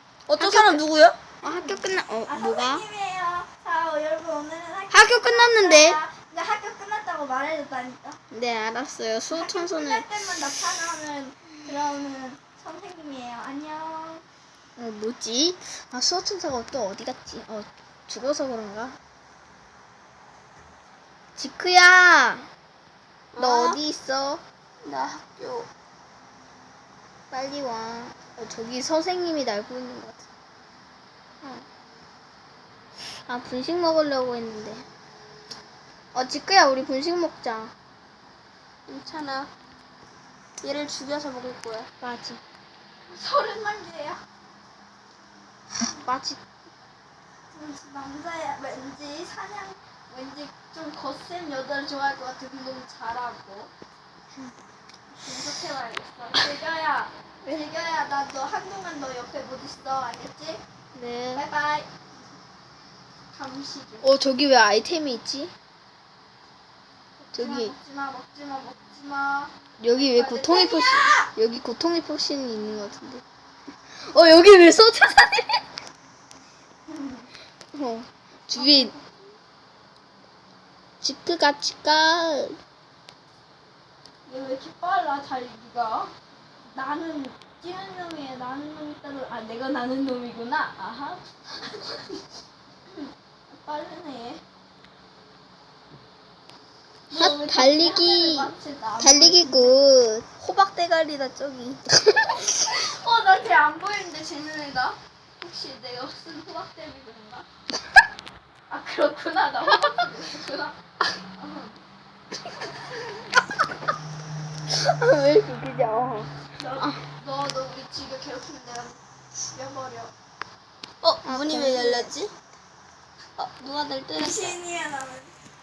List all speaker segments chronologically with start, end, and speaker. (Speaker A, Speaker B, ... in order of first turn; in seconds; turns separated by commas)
Speaker A: 0.3-1.2, Speaker B: 0.4-0.8, Speaker B: 1.4-2.8, Speaker C: 1.4-8.2, Speaker B: 4.9-6.0, Speaker B: 8.3-10.1, Speaker C: 9.3-14.2, Speaker B: 14.8-19.0, Speaker B: 21.4-22.5, Speaker A: 23.3-23.8, Speaker B: 23.4-24.4, Speaker A: 24.8-25.7, Speaker B: 27.3-30.3, Speaker B: 33.3-34.8, Speaker B: 36.1-37.7, Speaker A: 38.9-39.5, Speaker A: 40.6-41.9, Speaker B: 42.0-42.4, Speaker C: 43.1-44.2, Speaker B: 45.8-46.4, Speaker C: 47.5-53.7, Speaker C: 55.1-60.6, Speaker B: 60.9-61.4, Speaker C: 61.3-62.1, Speaker C: 63.3-64.1, Speaker B: 64.0-65.5, Speaker C: 67.2-71.3, Speaker B: 67.3-67.7, Speaker B: 69.8-73.2, Speaker B: 73.9-75.6, Speaker C: 76.9-77.3, Speaker B: 77.7-78.9, Speaker C: 78.5-79.2, Speaker B: 81.0-82.6, Speaker C: 84.2-86.1, Speaker C: 86.7-92.2, Speaker C: 92.9-94.4, Speaker C: 97.1-99.8, Speaker B: 97.1-100.3, Speaker A: 100.4-101.8, Speaker B: 102.1-102.5, Speaker C: 102.5-107.5, Speaker C: 108.7-110.8, Speaker C: 111.3-111.8, Speaker B: 114.7-116.3, Speaker C: 116.5-120.1, Speaker A: 121.0-122.3, Speaker B: 121.2-122.1, Speaker A: 123.4-124.6, Speaker C: 124.1-125.3